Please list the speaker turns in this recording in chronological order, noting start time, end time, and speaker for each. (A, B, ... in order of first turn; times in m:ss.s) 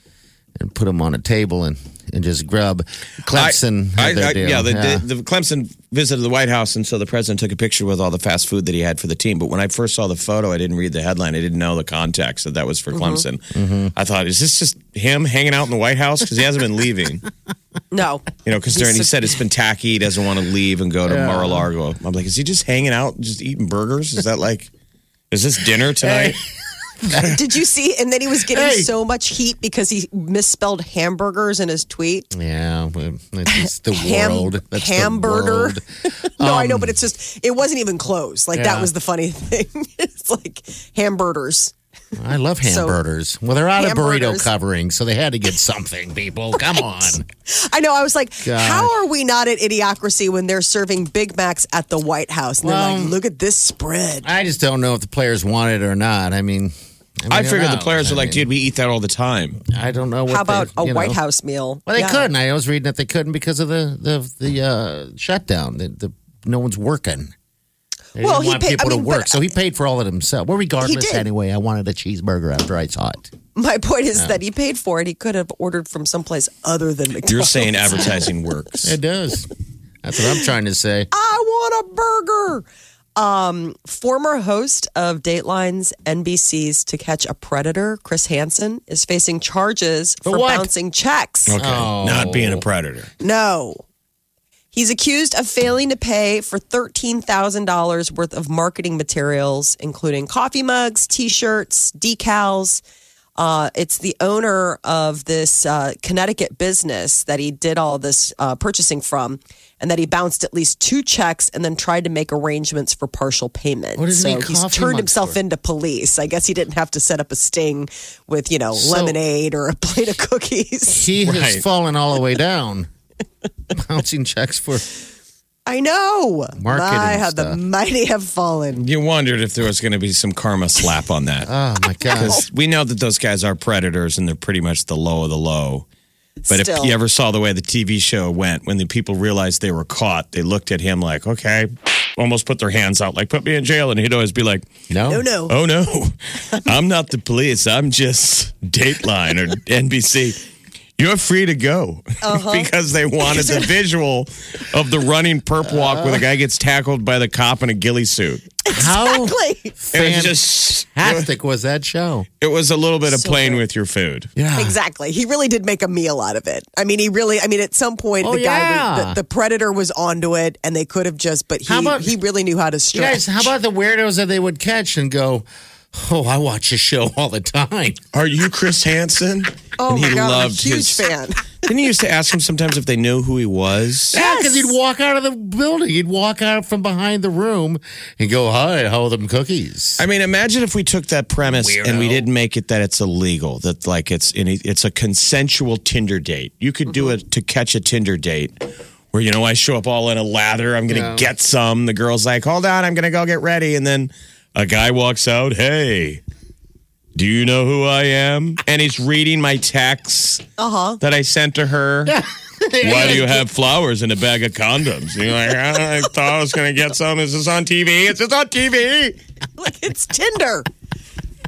0:00.6-0:05.0 A
0:03.3-0:17.2 B
0:12.9-0:13.2 C
0:13.5-0:13.9 A
0:17.9-0:19.1 C
0:18.4-0:24.7 B
0:21.1-0:21.7 A
0:25.3-0:26.4 B
0:26.0-0:26.4 A
0:27.0-0:27.4 A
0:27.3-0:32.3 C
0:28.5-0:28.9 A
0:32.3-0:35.9 A
0:33.5-0:41.7 C
0:36.4-0:37.0 A
0:38.5-0:38.9 A
0:42.2-0:47.2 A
0:42.6-0:43.0 C
0:43.8-0:44.5 C
0:47.5-0:54.3 C
0:48.4-0:48.9 A
0:52.6-0:53.2 A
0:54.2-0:58.5 A
0:57.3-0:59.6 B
0:59.7-1:01.2 A
1:00.3-1:02.3 C
1:01.9-1:07.3 A
1:08.2-1:13.3 A
1:08.2-1:09.4 C
1:10.8-1:11.3 C
1:13.6-1:18.3 C
1:17.3-1:19.0 B
1:18.8-1:19.5 A
1:20.0-1:21.1 A
1:21.1-1:31.5 C
1:30.2-1:30.7 A
1:31.5-1:33.1 B
1:31.6-1:32.6 A
1:33.2-1:33.8 C
1:34.7-1:42.8 C
1:43.4-2:01.1 C
1:54.0-1:55.4 A
1:58.7-1:59.2 A
2:00.9-2:02.9 A
2:01.2-2:01.6 B
2:03.7-2:04.9 A
2:05.7-2:08.8 C
2:06.6-2:07.6 A
2:08.8-2:11.5 B
2:11.4-2:12.4 A
2:12.1-2:15.9 B
2:16.4-2:17.0 C
2:16.5-2:24.7 B
2:24.9-2:25.2 A
2:25.1-2:25.5 C
2:25.5-2:30.4 B
2:31.0-2:38.6 B
2:32.2-2:32.7 C
2:33.2-2:33.7 C
2:35.6-2:36.2 A
2:38.7-2:39.8 C
2:38.7-2:42.3 A
2:39.9-2:41.3 B
2:42.4-2:44.3 B
2:43.1-2:43.6 C
2:44.4-2:44.8 A
2:44.6-2:53.5 C
2:48.2-2:49.2 A
2:51.7-2:52.1 A
2:52.9-2:58.0 A
2:58.1-3:01.0 B
2:59.8-3:01.5 C
3:01.6-3:04.2 B
3:04.1-3:10.0 A
3:04.1-3:04.7 C
3:10.0-3:26.2 B
3:11.4-3:12.3 A
3:20.9-3:21.3 A
3:27.2-3:30.4 B
3:30.6-3:31.0 C
3:31.0-3:32.2 B
3:32.0-3:33.5 A
3:32.8-3:39.2 B
3:39.6-3:40.7 C